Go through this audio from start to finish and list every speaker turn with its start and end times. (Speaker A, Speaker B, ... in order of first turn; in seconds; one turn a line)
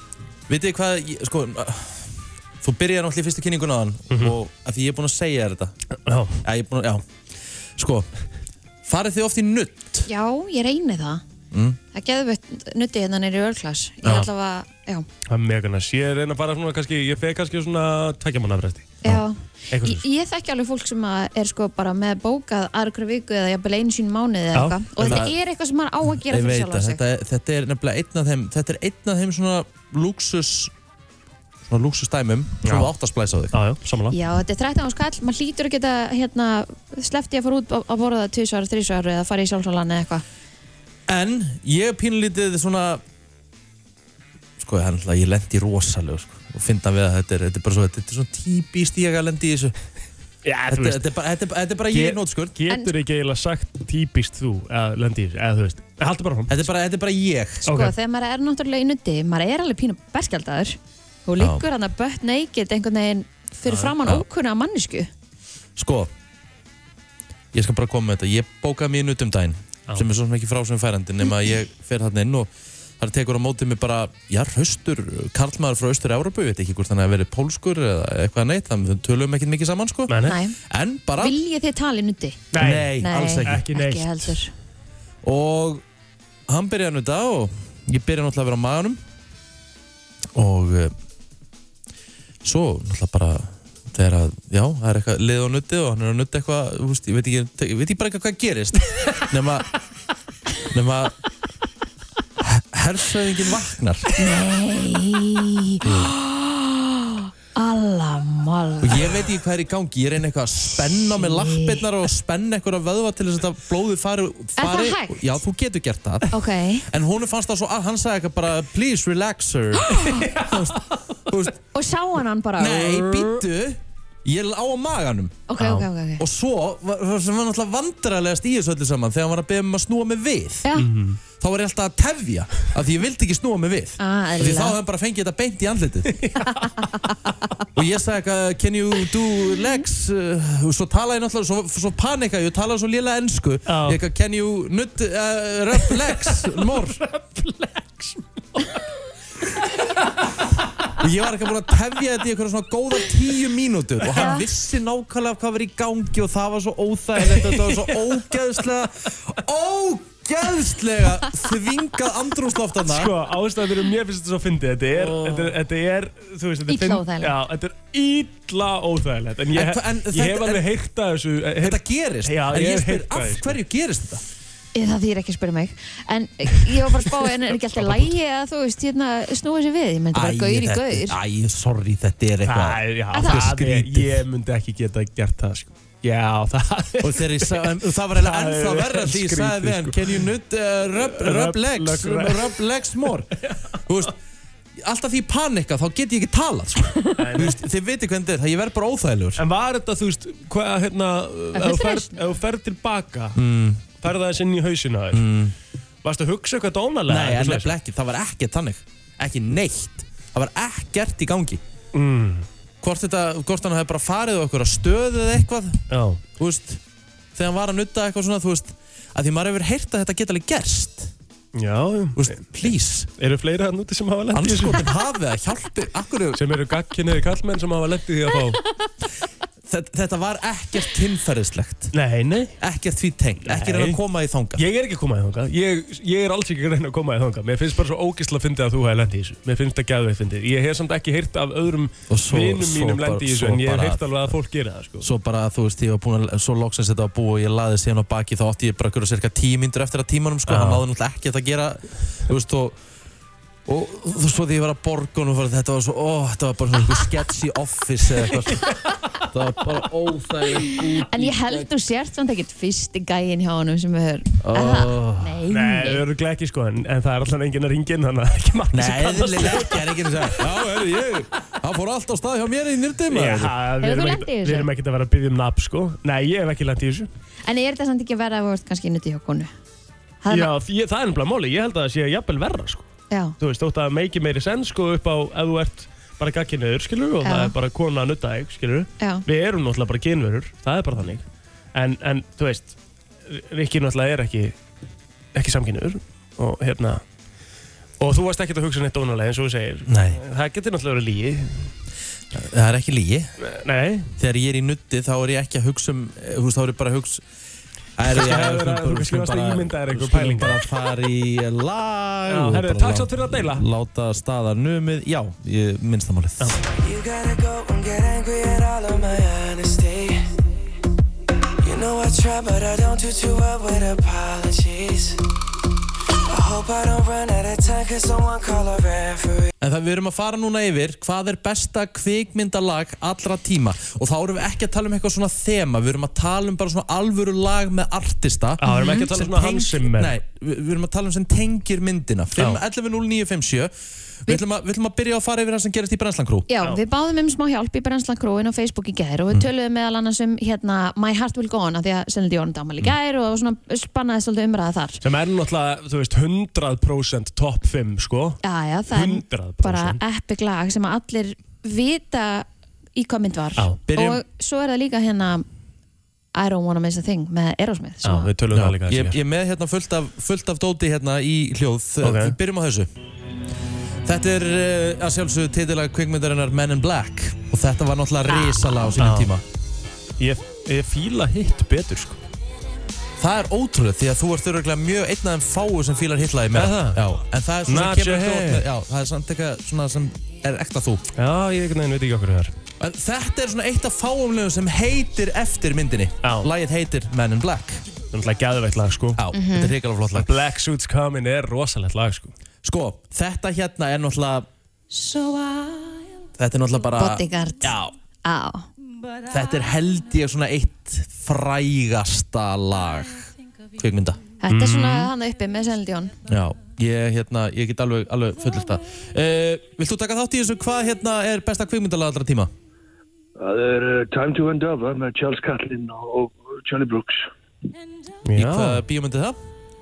Speaker A: 0.5-2.1
Speaker A: 2.6-5.7
Speaker B: 4.1-4.3
Speaker B: 6.0-6.4
Speaker A: 6.4-7.0
Speaker A: 7.8-8.1
Speaker A: 8.8-10.1
Speaker C: 10.1-11.2
Speaker A: 11.5-11.8
Speaker C: 11.9-15.1
Speaker B: 15.3-19.0
Speaker C: 19.0-27.0
Speaker B: 19.7-20.0
Speaker B: 24.5-25.2
Speaker A: 25.0-25.3
Speaker A: 26.2-30.7
Speaker A: 31.7-33.6
Speaker B: 32.6-32.9
Speaker B: 33.5-34.1
Speaker C: 34.1-40.2
Speaker A: 41.1-43.0
Speaker A: 44.6-49.7
Speaker B: 50.4-51.1
Speaker A: 50.7-52.6
Speaker B: 51.9-56.6
Speaker A: 56.5-57.6
Speaker C: 57.6-65.1
Speaker B: 57.7-58.0
Speaker A: 61.4-61.6
Speaker B: 63.7-63.9
Speaker A: 65.8-66.1
Speaker A: 67.5-81.4
Speaker B: 80.1-80.4
Speaker C: 80.2-80.6
Speaker C: 81.2-82.5
Speaker B: 82.5-84.3
Speaker A: 82.5-83.6
Speaker C: 83.0-84.5
Speaker A: 85.2-85.8
Speaker A: 86.5-89.0
Speaker A: 90.3-90.9
Speaker A: 92.4-99.7
Speaker A: 100.7-101.1
Speaker A: 102.4-104.1
Speaker C: 104.2-109.2
Speaker A: 105.8-106.1
Speaker A: 108.8-121.5
Speaker C: 111.1-111.8
Speaker C: 114.6-115.3
Speaker C: 116.3-116.9
Speaker C: 119.8-120.4
Speaker B: 120.1-120.8
Speaker C: 121.7-123.4
Speaker A: 122.6-125.6
Speaker C: 125.5-126.2
Speaker A: 126.2-130.7
Speaker B: 130.8-131.2
Speaker A: 131.4-136.2
Speaker C: 134.0-134.8
Speaker B: 136.2-136.6
Speaker C: 136.5-137.1
Speaker A: 137.7-147.0
Speaker B: 143.7-144.0
Speaker B: 145.8-148.8
Speaker A: 151.0-163.1
Speaker C: 154.2-154.4
Speaker B: 157.3-158.2
Speaker B: 162.9-173.6
Speaker A: 164.9-165.6
Speaker C: 166.7-167.3
Speaker A: 169.5-170.6
Speaker A: 171.6-174.2
Speaker C: 174.7-181.2
Speaker B: 177.8-178.1
Speaker A: 180.1-184.2
Speaker B: 182.4-190.2
Speaker C: 183.1-183.4
Speaker A: 187.0-193.3
Speaker B: 191.0-192.5
Speaker A: 193.9-194.1
Speaker A: 194.8-199.4
Speaker B: 197.2-197.6
Speaker B: 199.4-203.4
Speaker C: 201.5-202.2
Speaker A: 203.3-203.8
Speaker B: 204.0-205.3
Speaker A: 205.1-205.5
Speaker B: 206.0-207.7
Speaker A: 207.1-211.6
Speaker B: 211.9-212.5
Speaker A: 212.8-215.8
Speaker B: 215.9-216.2
Speaker A: 216.4-216.8
Speaker A: 217.3-221.1
Speaker B: 221.5-222.4
Speaker A: 222.1-223.1
Speaker B: 223.2-224.9
Speaker A: 224.3-226.4
Speaker B: 226.3-228.6
Speaker A: 229.7-231.9
Speaker B: 231.9-232.5
Speaker A: 232.6-234.6
Speaker B: 233.4-234.0
Speaker B: 234.6-245.1
Speaker A: 242.1-244.1
Speaker A: 245.0-252.8
Speaker B: 250.5-250.8
Speaker A: 253.7-261.7
Speaker C: 260.7-266.0
Speaker A: 264.4-265.3
Speaker B: 265.5-270.7
Speaker A: 268.7-273.5
Speaker B: 273.1-277.1
Speaker C: 273.8-274.7
Speaker C: 277.4-279.5
Speaker C: 280.2-280.5
Speaker B: 280.3-282.9
Speaker B: 283.4-291.2
Speaker C: 287.2-287.5
Speaker C: 289.0-289.2
Speaker B: 291.7-292.7
Speaker B: 293.3-294.5
Speaker B: 295.3-297.0
Speaker B: 298.0-301.7
Speaker A: 299.9-300.2
Speaker A: 302.3-303.3
Speaker B: 303.4-304.1
Speaker A: 304.2-307.2
Speaker A: 308.0-316.6
Speaker B: 308.1-310.6
Speaker B: 312.3-313.6
Speaker D: 316.8-320.3
Speaker D: 321.6-325.2
Speaker D: 326.3-329.5
Speaker A: 329.6-343.7
Speaker B: 338.6-340.2
Speaker C: 338.6-339.1
Speaker B: 342.4-342.6
Speaker A: 344.2-346.5
Speaker C: 346.5-355.0
Speaker B: 355.0-360.0
Speaker C: 358.4-365.4
Speaker A: 363.9-364.2
Speaker C: 366.3-368.3
Speaker B: 368.0-369.2
Speaker A: 368.5-372.9
Speaker B: 372.0-372.4
Speaker A: 374.0-379.4
Speaker B: 379.0-379.3
Speaker B: 380.2-382.2
Speaker A: 383.2-391.0
Speaker B: 386.5-387.0
Speaker B: 387.7-388.6
Speaker B: 391.1-392.5
Speaker A: 392.8-397.8
Speaker B: 396.2-396.5
Speaker B: 398.1-399.2
Speaker A: 399.1-400.3
Speaker C: 399.3-399.7
Speaker B: 400.1-402.3
Speaker A: 402.6-404.5
Speaker C: 404.9-405.7
Speaker A: 406.4-407.9
Speaker C: 407.0-408.7
Speaker A: 409.3-414.2
Speaker C: 414.4-416.1
Speaker B: 414.5-415.1
Speaker A: 416.3-422.5
Speaker E: 423.4-427.3
Speaker B: 428.3-428.8
Speaker A: 428.3-429.4